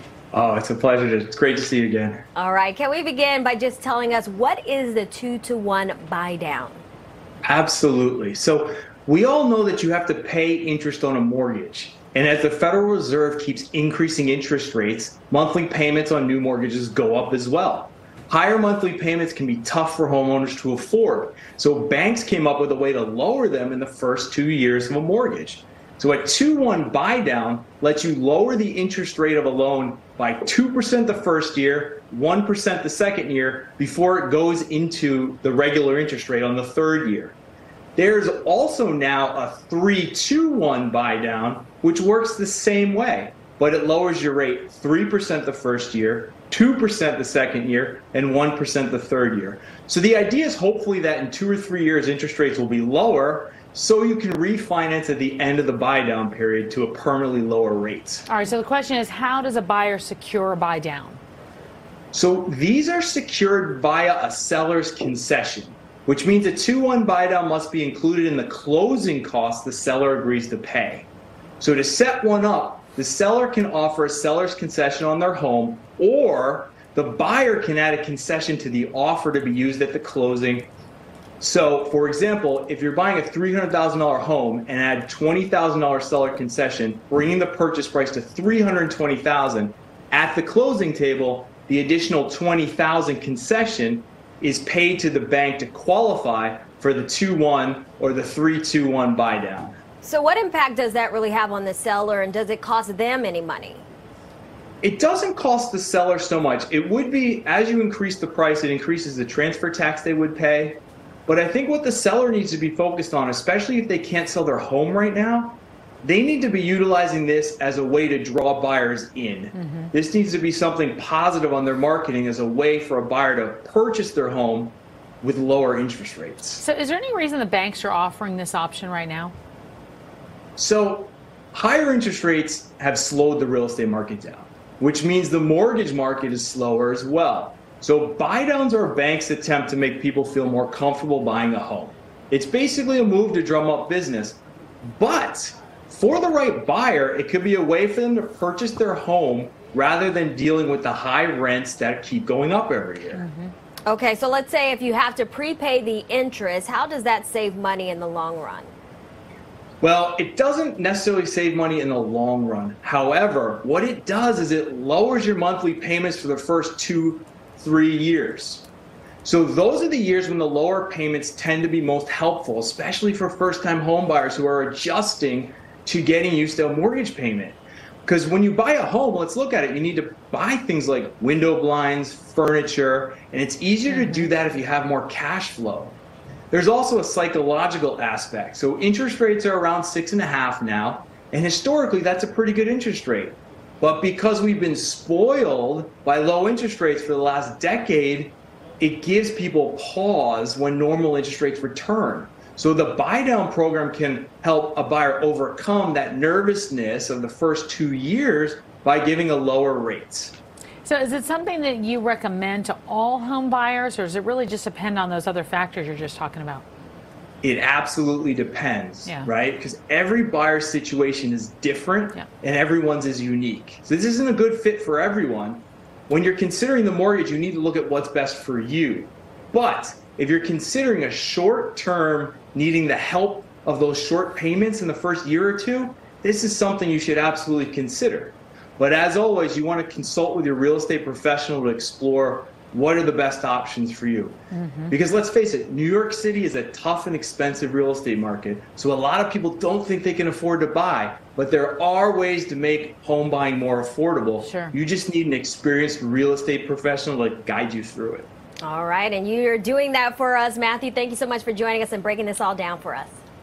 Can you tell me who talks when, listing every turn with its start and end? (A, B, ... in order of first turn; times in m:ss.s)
0:00.3-0:02.3 A
0:02.4-0:06.8 B
0:07.4-0:37.4 A
0:38.0-0:58.2 A
0:58.2-1:01.2 C
1:02.1-1:11.1 A
1:11.6-1:20.7 A
1:21.4-1:39.8 A
1:40.0-1:43.8 B
1:44.8-2:06.6 A
1:59.5-1:59.9 C
2:06.6-2:09.3 C
2:10.6-2:33.2 A
2:33.1-2:33.5 C
2:33.8-2:38.7 B
2:39.8-2:48.7 A
2:49.2-3:06.0 A
3:03.9-3:04.3 C
3:06.5-3:30.4 A
3:30.8-3:36.6 C
3:37.4-4:04.4 A
4:04.5-4:04.9 C
4:04.9-4:18.3 A
4:14.4-4:14.7 C
4:18.6-4:23.2 B